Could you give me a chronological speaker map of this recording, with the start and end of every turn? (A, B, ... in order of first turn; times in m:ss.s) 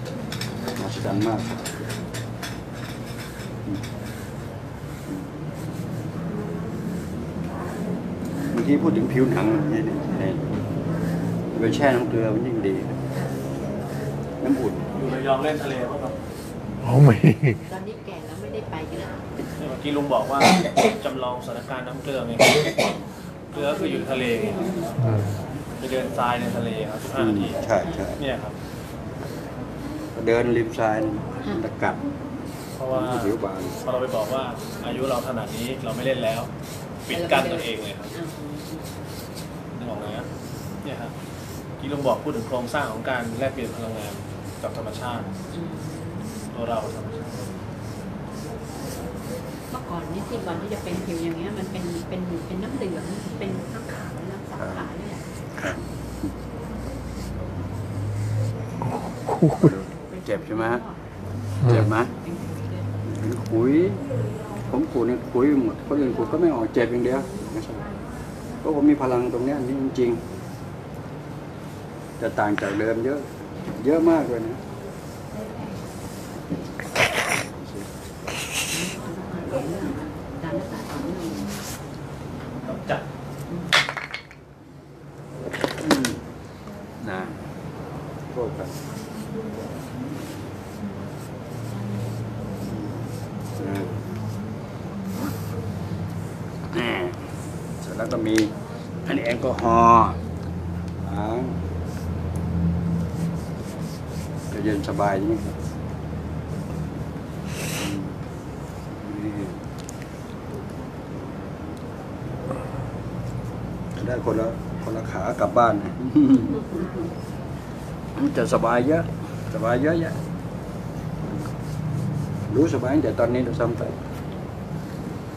0:00.8-0:01.8 A
0:08.5-0:10.5 A
0:11.5-0:13.0 A
0:14.4-0:14.9 A
0:15.0-0:16.2 B
0:16.8-0:17.6 C
0:17.7-0:19.3 D
0:19.6-0:22.9 B
0:23.5-0:25.0 B
0:23.5-0:24.9 D
0:25.0-0:25.4 C
0:25.8-0:27.6 B
0:27.2-0:28.2 A
0:28.2-0:28.6 B
0:30.1-0:32.0 A
0:32.8-0:36.5 B
0:32.9-0:33.8 A
0:37.1-0:38.1 B
0:37.1-0:39.0 D
0:39.8-0:40.3 B
0:40.8-0:41.1 B
0:41.8-0:45.4 B
0:45.5-0:46.4 D
0:46.5-0:47.6 B
0:49.7-0:55.3 D
0:54.6-0:54.9 A
0:55.6-0:55.9 A
0:58.8-0:59.8 C
0:59.5-1:00.8 A
0:59.9-1:01.0 D
1:01.6-1:01.9 C
1:01.6-1:02.1 A
1:01.6-1:02.9 D
1:03.0-1:04.0 A
1:04.7-1:07.8 A
1:08.6-1:10.3 A
1:12.2-1:14.6 A
1:17.4-1:17.9 A
1:18.7-1:21.5 D
1:22.6-1:23.0 B
1:23.5-1:23.7 D
1:25.8-1:26.2 A
1:27.0-1:27.4 A
1:28.3-1:28.8 A
1:32.7-1:33.0 A
1:33.6-1:34.0 A
1:36.7-1:37.2 A
1:37.8-1:38.5 A
1:39.1-1:40.2 A
1:41.0-1:41.6 A
1:44.5-1:45.6 A
1:47.8-1:48.2 A
1:49.0-1:49.6 A
1:54.0-1:56.7 A
1:56.6-1:57.1 D
1:58.2-2:00.2 A
2:02.5-2:04.0 A